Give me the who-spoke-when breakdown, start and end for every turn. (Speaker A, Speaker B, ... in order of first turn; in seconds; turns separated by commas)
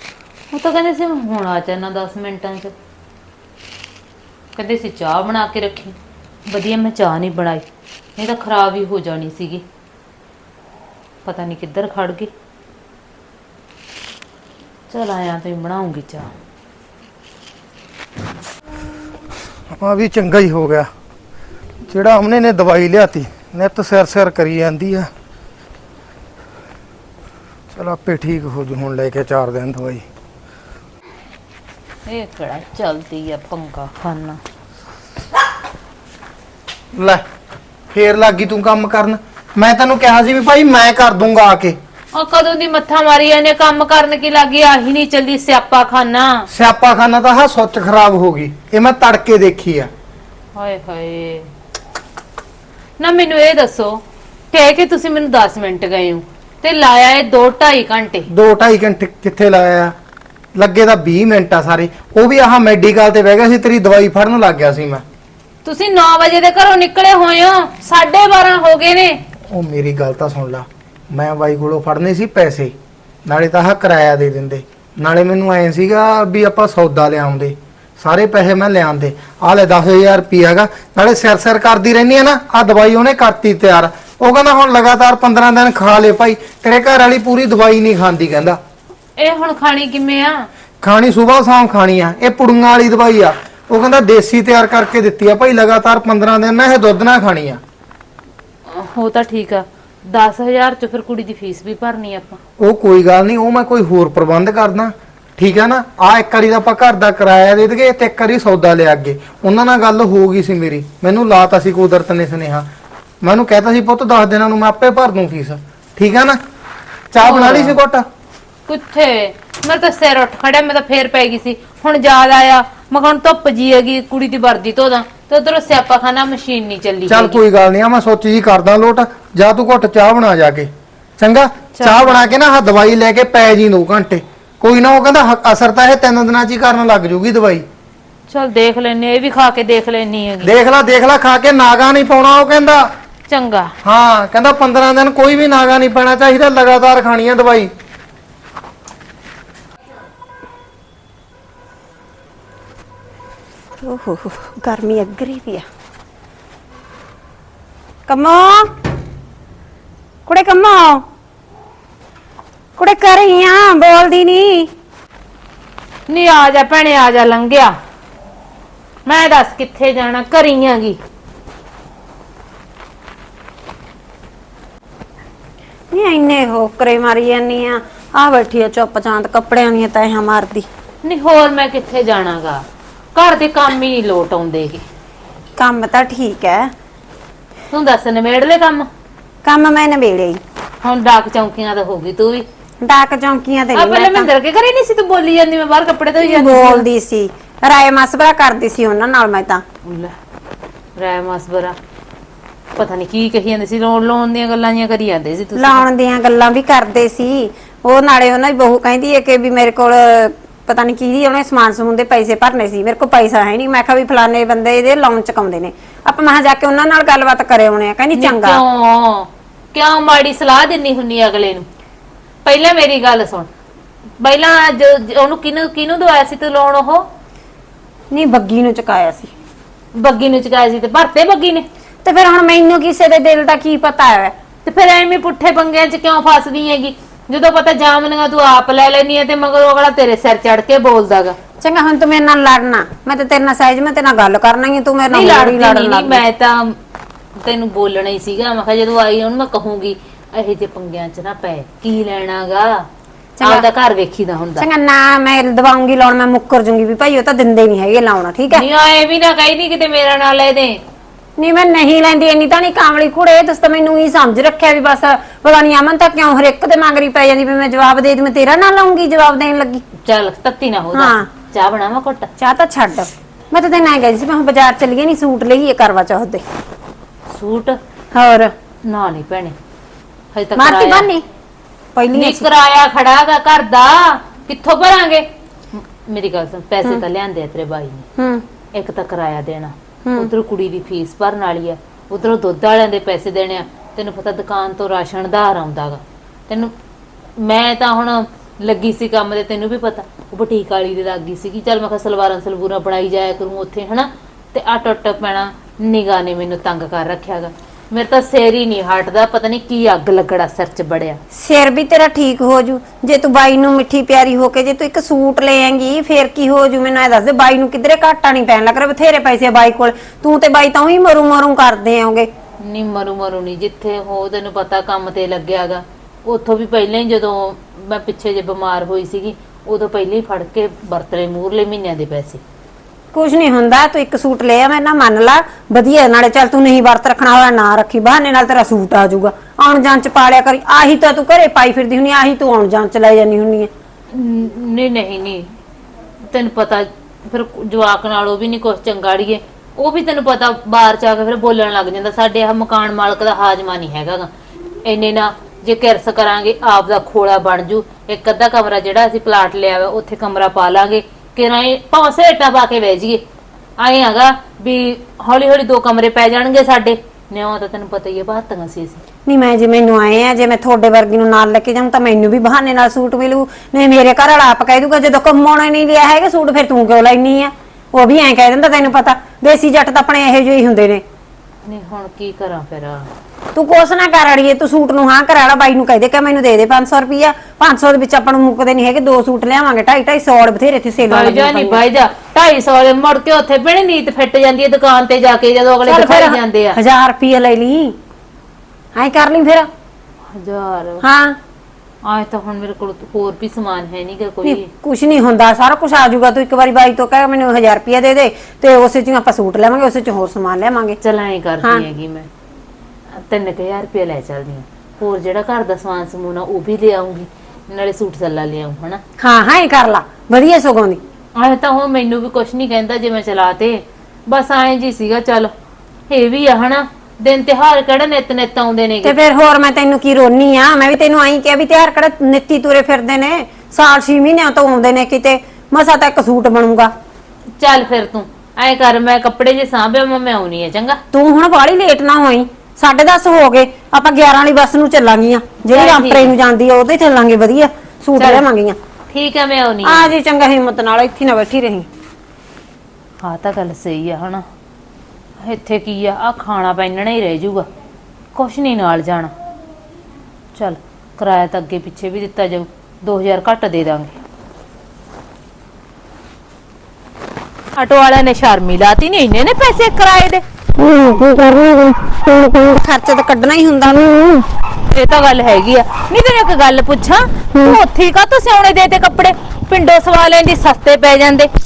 Speaker A: 0.5-2.7, Speaker A: 4.5-6.0, Speaker A: 6.5-7.6, Speaker A: 8.2-9.6, Speaker A: 11.2-12.3, Speaker A: 14.9-16.3, Speaker B: 19.7-20.9, Speaker B: 21.9-25.1, Speaker B: 27.7-30.0, Speaker A: 32.1-34.4, Speaker B: 36.9-37.2, Speaker B: 37.9-41.8, Speaker A: 42.1-46.5, Speaker B: 46.5-49.9, Speaker A: 50.5-51.5, Speaker A: 53.0-58.3, Speaker B: 58.3-59.9, Speaker B: 60.5-65.0, Speaker A: 65.6-69.2, Speaker B: 69.5-72.7, Speaker B: 73.2-88.6, Speaker A: 89.2-90.5, Speaker B: 90.8-97.6, Speaker A: 98.7-102.4, Speaker B: 102.6-112.7, Speaker B: 113.2-116.4, Speaker B: 117.1-118.0, Speaker A: 117.2-117.8, Speaker A: 118.7-127.4, Speaker B: 127.1-137.6, Speaker A: 131.8-132.3, Speaker A: 138.3-140.5, Speaker B: 140.4-142.9, Speaker A: 143.3-143.7, Speaker B: 143.8-147.7, Speaker C: 153.8-155.6, Speaker C: 158.1-158.7, Speaker C: 160.2-161.0, Speaker C: 162.8-164.7, Speaker A: 166.1-167.7, Speaker A: 169.1-171.0, Speaker C: 175.9-180.7, Speaker A: 181.0-182.6, Speaker A: 183.1-184.8, Speaker C: 185.6-186.7, Speaker A: 187.7-188.9, Speaker C: 189.4-190.4, Speaker A: 190.8-192.4, Speaker C: 192.8-194.3, Speaker A: 193.7-196.8, Speaker C: 196.2-199.6, Speaker A: 199.8-200.1, Speaker A: 200.9-201.8, Speaker A: 202.8-205.8, Speaker C: 205.5-218.6, Speaker A: 218.2-221.7, Speaker A: 222.4-223.5, Speaker A: 224.2-227.1, Speaker C: 228.1-229.3, Speaker A: 229.9-231.6, Speaker C: 232.0-234.3, Speaker A: 234.6-241.3, Speaker C: 241.6-246.2, Speaker A: 245.1-246.7, Speaker A: 247.4-252.8, Speaker C: 253.4-253.7, Speaker A: 253.4-254.6, Speaker C: 254.6-258.6, Speaker A: 258.5-260.8, Speaker C: 261.4-269.8, Speaker A: 270.0-272.3, Speaker C: 270.9-271.2, Speaker C: 272.4-276.4, Speaker A: 277.3-277.8, Speaker C: 278.1-278.5, Speaker A: 278.9-279.5, Speaker A: 280.3-281.1, Speaker C: 280.6-281.2, Speaker C: 281.9-282.5, Speaker A: 282.1-288.1, Speaker C: 288.2-288.4, Speaker A: 288.7-296.7, Speaker A: 297.4-311.2, Speaker C: 311.3-322.3, Speaker A: 322.6-332.4, Speaker C: 333.1-343.7, Speaker A: 344.1-345.5, Speaker A: 346.2-354.3, Speaker A: 354.8-363.2, Speaker A: 363.8-369.0, Speaker C: 369.2-381.0, Speaker A: 381.6-383.1, Speaker C: 383.5-391.8, Speaker A: 391.1-396.8, Speaker C: 395.9-397.9, Speaker C: 398.9-399.7, Speaker A: 400.3-401.0, Speaker C: 401.0-401.4, Speaker A: 402.0-404.7, Speaker C: 404.4-411.0, Speaker A: 411.0-412.3, Speaker A: 413.1-419.0, Speaker C: 419.2-421.0, Speaker A: 421.4-425.5, Speaker A: 426.1-429.2, Speaker C: 429.0-436.9, Speaker A: 437.6-441.0, Speaker C: 441.1-448.8, Speaker A: 445.7-446.3, Speaker A: 448.2-448.4, Speaker A: 449.1-450.1, Speaker C: 449.8-451.9, Speaker A: 453.2-454.4, Speaker A: 455.4-457.7, Speaker A: 458.3-459.3, Speaker A: 460.5-464.1, Speaker A: 467.7-470.4, Speaker C: 471.0-471.6, Speaker C: 472.5-474.4, Speaker A: 474.9-481.5